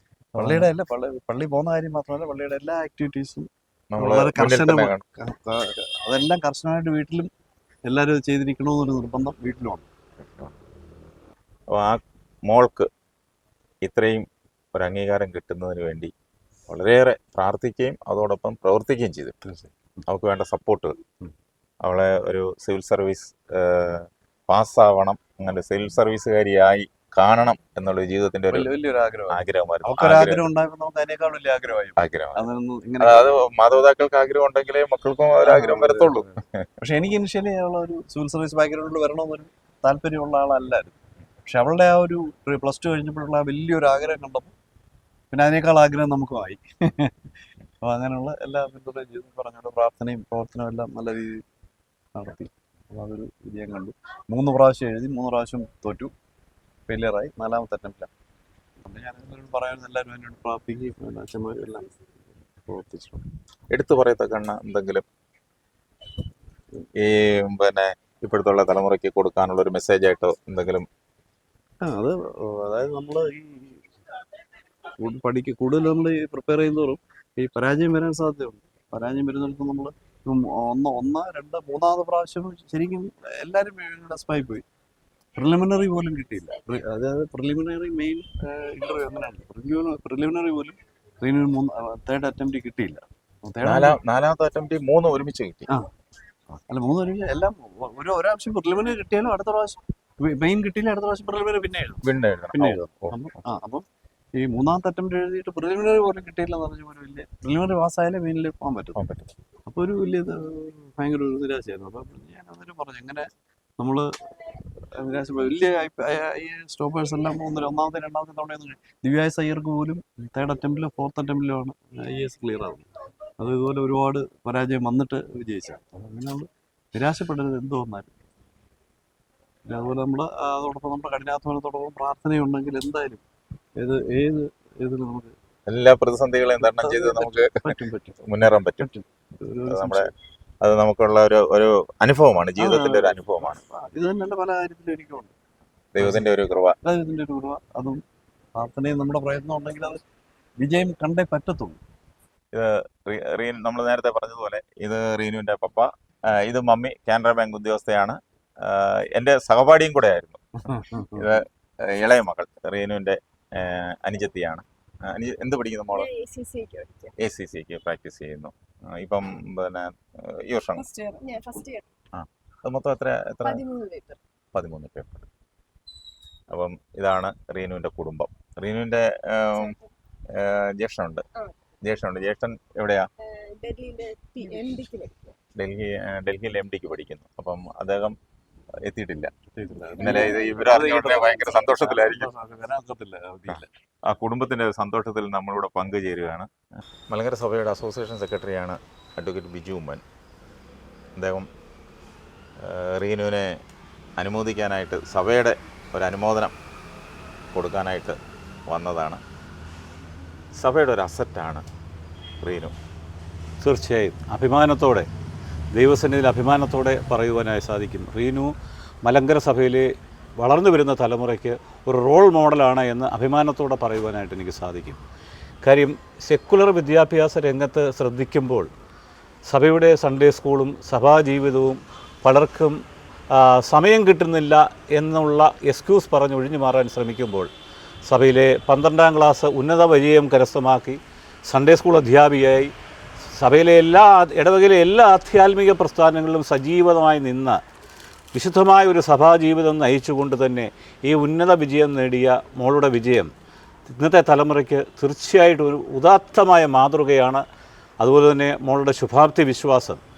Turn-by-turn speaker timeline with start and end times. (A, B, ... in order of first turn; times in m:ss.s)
0:00.3-0:07.3 A
0:00.4-0:00.7 B
0:03.9-0:05.0 B
0:07.8-0:09.8 A
0:10.2-0:10.5 B
0:11.8-0:12.9 B
0:13.8-0:16.1 B
0:16.7-0:19.4 B
0:19.4-0:19.7 A
0:20.1-0:20.9 B
0:21.8-0:28.7 B
0:28.5-0:33.4 A
0:29.3-0:30.5 B
0:32.0-0:32.4 B
0:33.0-0:36.6 B
0:35.4-0:44.5 A
0:45.3-0:47.2 A
0:47.8-0:51.4 A
0:52.1-0:56.1 A
0:56.9-0:58.1 A
0:58.8-1:01.9 A
1:02.6-1:03.2 A
1:03.7-1:05.0 B
1:07.0-1:10.9 B
1:11.8-1:13.9 A
1:15.0-1:24.6 A
1:25.4-1:34.0 A
1:33.6-1:35.7 B
1:36.6-1:49.0 A
1:42.0-1:43.1 B
1:49.0-1:49.3 B
1:49.7-1:53.3 A
1:53.8-1:54.1 A
1:54.9-2:02.9 A
2:03.4-2:08.2 A
2:09.7-2:13.2 A
2:13.8-2:15.3 A
2:15.7-2:17.6 B
2:16.5-2:20.1 A
2:18.2-2:18.9 B
2:19.7-2:20.1 B
2:20.6-2:23.6 B
2:22.6-2:25.3 A
2:25.9-2:26.8 B
2:26.0-2:26.2 A
2:26.8-2:28.0 A
2:28.5-2:30.0 A
2:30.6-2:31.8 A
2:32.5-2:46.1 B
2:40.7-2:41.3 A
2:45.9-2:47.2 C
2:47.2-2:50.8 B
2:50.8-2:51.8 C
2:52.1-2:53.6 B
2:53.4-2:54.2 C
2:54.5-2:55.3 B
2:56.5-2:59.7 B
3:00.4-3:01.2 B
3:01.9-3:03.0 B
3:03.5-3:05.2 C
3:05.6-3:08.2 B
3:08.9-3:09.3 B
3:09.5-3:13.7 A
3:10.0-3:12.3 B
3:10.0-3:10.5 C
3:13.5-3:16.5 B
3:17.1-3:20.0 B
3:21.2-3:21.5 B
3:22.6-3:23.5 B
3:24.2-3:26.5 B
3:27.5-3:28.2 B
3:28.7-3:29.2 B
3:30.6-3:31.6 B
3:32.4-3:32.7 B
3:33.6-3:35.1 D
3:35.7-3:38.5 D
3:39.0-3:45.0 D
3:45.6-3:48.7 D
3:49.4-3:52.8 D
3:53.3-3:57.5 D
3:58.0-4:02.7 D
4:03.3-4:07.6 D
4:08.3-4:13.3 D
4:13.9-4:17.4 D
4:18.0-4:20.0 D